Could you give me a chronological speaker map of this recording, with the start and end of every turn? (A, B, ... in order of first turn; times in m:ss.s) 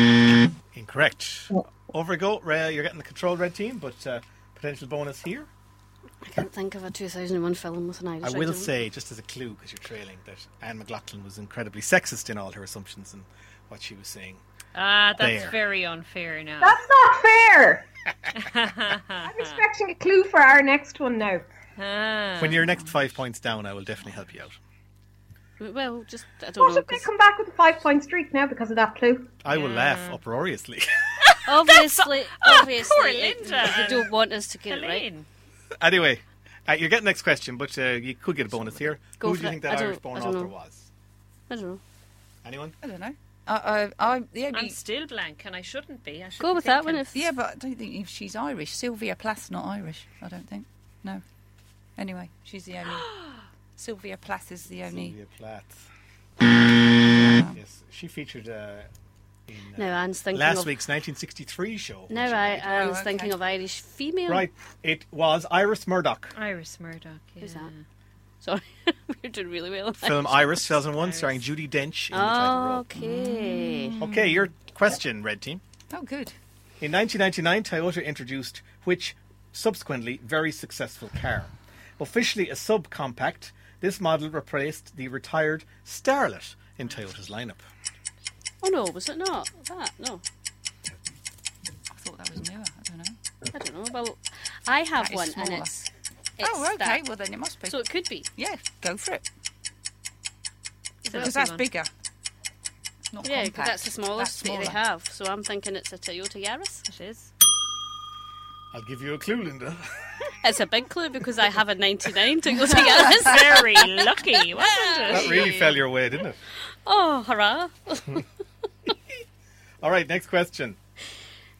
0:00.7-0:05.5 A
0:06.2-0:08.7 B
0:08.2-0:14.4 A
0:14.7-0:16.8 C
0:15.2-0:15.6 A
0:16.6-0:17.9 D
0:18.4-0:19.6 C
0:19.2-0:21.4 D
0:21.8-0:22.6 C
0:22.4-0:24.6 A
0:25.6-0:27.1 B
0:26.6-0:29.3 D
0:29.4-0:30.9 A
0:29.5-0:30.2 C
0:31.5-0:35.1 B
0:31.7-0:34.1 C
0:34.7-0:35.3 C
0:35.8-0:40.9 A
0:39.2-0:40.5 B
0:41.5-0:41.8 B
0:42.4-0:42.8 A
0:42.8-0:44.8 E
0:44.5-0:47.0 C
0:46.4-0:47.2 B
0:47.1-0:51.2 E
0:52.0-0:53.1 E
0:53.8-0:55.2 E
0:54.9-0:55.9 A
0:57.0-0:57.6 E
0:57.5-0:58.9 A
0:59.5-1:02.6 A
0:59.8-1:00.7 B
1:02.1-1:04.5 B
1:02.6-1:03.4 E
1:04.3-1:06.3 A
1:06.4-1:07.8 C
1:07.4-1:07.7 B
1:08.4-1:10.5 B
1:10.0-1:12.8 A
1:10.9-1:11.4 C
1:12.1-1:14.0 B
1:12.9-1:14.4 E
1:14.0-1:15.6 A
1:15.9-1:16.4 E
1:16.8-1:27.6 A
1:28.6-1:30.2 B
1:31.9-1:33.2 E
1:33.5-1:37.0 B
1:35.0-1:35.7 E
1:36.4-1:37.8 E
1:37.7-1:38.3 B
1:38.4-1:39.2 E
1:41.1-1:41.7 C
1:41.1-1:41.9 E
1:43.1-1:44.8 E
1:43.2-1:46.8 B
1:46.9-1:47.3 C
1:48.7-1:50.0 A
1:50.4-1:53.6 B
1:53.1-1:55.3 C
1:54.5-1:55.4 B
1:55.1-1:56.4 A
1:55.1-1:55.8 E
1:56.8-1:58.2 B
1:59.8-2:00.8 A